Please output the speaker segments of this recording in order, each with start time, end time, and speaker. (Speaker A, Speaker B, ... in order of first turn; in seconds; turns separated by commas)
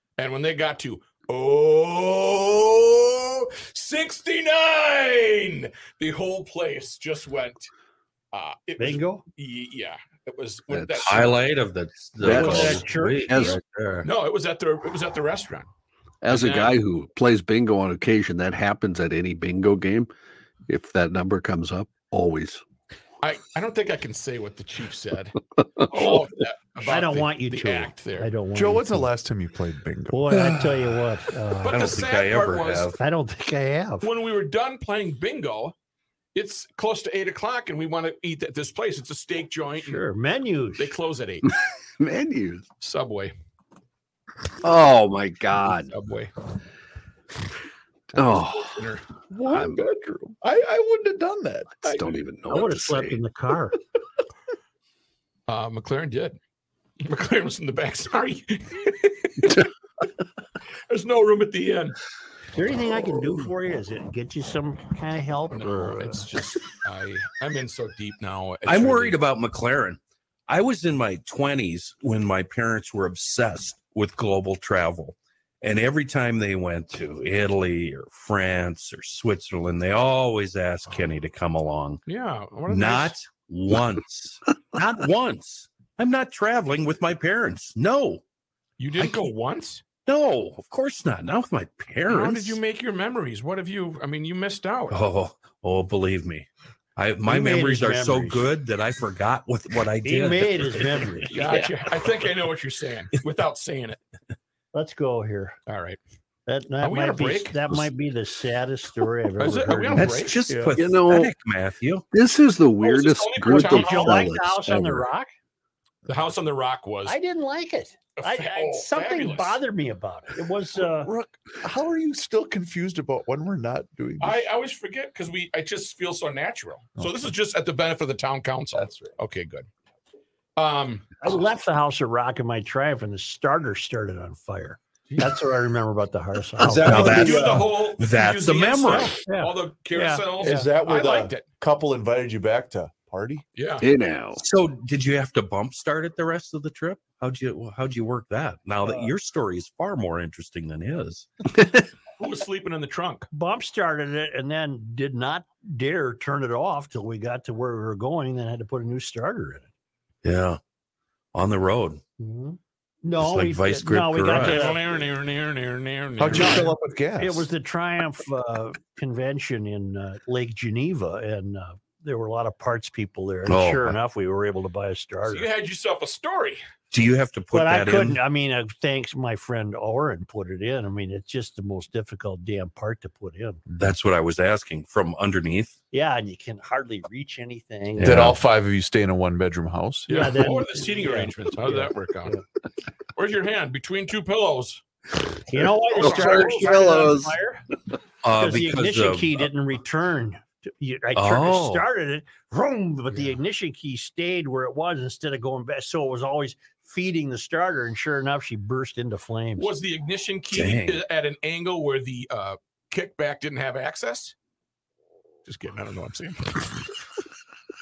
Speaker A: 0.2-7.7, Speaker A: 8.3-11.4, Speaker B: 8.8-9.2, Speaker C: 10.7-11.3, Speaker D: 11.0-14.1, Speaker C: 12.2-13.6, Speaker B: 12.2-13.6, Speaker A: 12.3-12.7, Speaker A: 14.0-15.7, Speaker C: 16.2-20.1, Speaker A: 16.3-16.8, Speaker C: 20.7-22.6, Speaker A: 23.2-28.3, Speaker B: 26.8-29.1, Speaker E: 28.5-30.5, Speaker B: 30.1-31.8, Speaker D: 30.3-31.0, Speaker A: 31.6-33.0, Speaker D: 31.6-33.0, Speaker B: 33.0-34.1, Speaker A: 34.0-35.8, Speaker A: 36.4-40.0, Speaker B: 39.8-41.0, Speaker A: 40.8-41.5, Speaker C: 42.0-42.7, Speaker A: 42.8-43.3, Speaker C: 44.6-45.9, Speaker A: 45.9-46.3, Speaker C: 48.1-48.9, Speaker A: 48.4-49.0, Speaker E: 49.3-52.2, Speaker C: 49.5-49.8, Speaker C: 51.8-53.2, Speaker B: 52.5-53.8, Speaker A: 55.5-56.4, Speaker A: 57.0-59.6, Speaker A: 60.9-62.0, Speaker B: 62.5-66.2, Speaker A: 65.5-69.2, Speaker D: 68.7-82.0, Speaker A: 82.1-83.2, Speaker D: 82.7-88.2, Speaker A: 88.8-89.8, Speaker D: 90.1-92.6, Speaker A: 92.1-95.0, Speaker D: 94.9-101.6, Speaker B: 97.2-98.4, Speaker B: 100.0-101.3, Speaker A: 101.3-104.0, Speaker B: 104.7-105.6, Speaker A: 105.7-106.0, Speaker B: 106.5-110.8, Speaker A: 106.8-107.9, Speaker A: 109.4-110.5, Speaker D: 110.0-112.1, Speaker C: 110.8-111.3, Speaker C: 112.1-115.1, Speaker A: 112.8-114.3, Speaker B: 113.5-115.3, Speaker A: 116.1-117.2, Speaker B: 117.1-121.1, Speaker A: 118.2-119.6, Speaker E: 121.0-124.5, Speaker A: 124.2-129.7, Speaker E: 127.0-127.3, Speaker E: 128.7-129.2, Speaker A: 130.6-131.1, Speaker B: 131.2-137.4, Speaker E: 136.6-137.4, Speaker D: 136.6-139.2, Speaker A: 136.8-141.5, Speaker B: 139.2-140.7, Speaker E: 140.4-143.4, Speaker A: 143.6-143.9, Speaker C: 143.8-144.4, Speaker D: 144.4-151.3, Speaker B: 148.8-149.1, Speaker A: 152.2-153.3, Speaker B: 153.3-159.7, Speaker D: 160.2-160.6, Speaker D: 161.3-162.0, Speaker B: 162.2-165.0, Speaker D: 163.2-164.7, Speaker A: 164.3-166.7, Speaker E: 166.2-167.5, Speaker B: 166.3-175.5, Speaker D: 173.5-174.0, Speaker A: 175.2-176.6, Speaker D: 176.9-178.2, Speaker B: 177.5-183.6, Speaker D: 183.8-185.8, Speaker B: 185.9-188.3, Speaker D: 188.0-188.4, Speaker E: 188.0-190.3, Speaker A: 190.1-192.4, Speaker B: 190.1-192.4, Speaker A: 193.2-194.8, Speaker B: 195.5-197.6, Speaker A: 195.9-197.1, Speaker C: 196.0-197.3, Speaker D: 198.2-199.5, Speaker B: 198.4-209.7, Speaker D: 201.2-201.8, Speaker A: 209.6-214.3, Speaker D: 210.5-211.0, Speaker A: 215.5-216.9